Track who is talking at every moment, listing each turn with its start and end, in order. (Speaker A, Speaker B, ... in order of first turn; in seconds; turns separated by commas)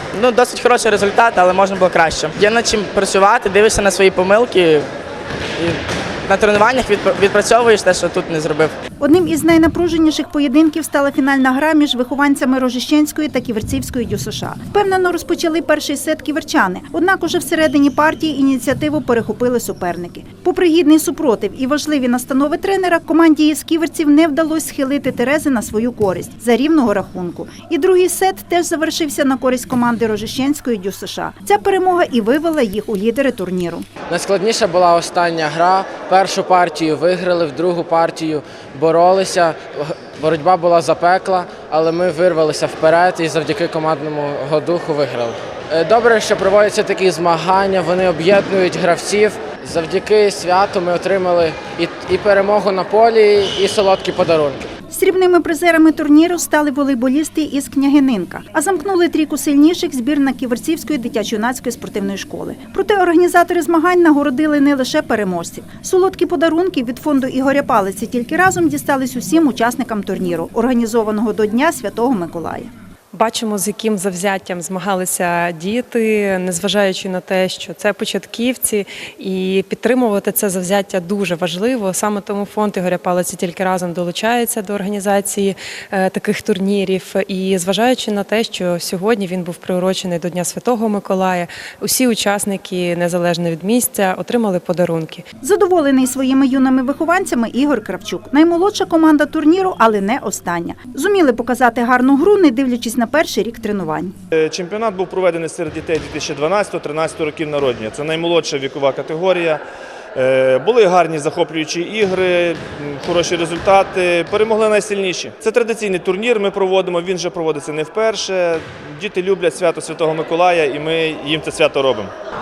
Speaker A: 0.1-4.9, Speaker A: 5.6-8.7, Speaker B: 9.0-33.9, Speaker C: 34.1-54.6, Speaker B: 54.9-72.7, Speaker D: 73.1-95.3, Speaker B: 95.4-104.1, Speaker E: 104.3-109.6, Speaker E: 110.2-122.1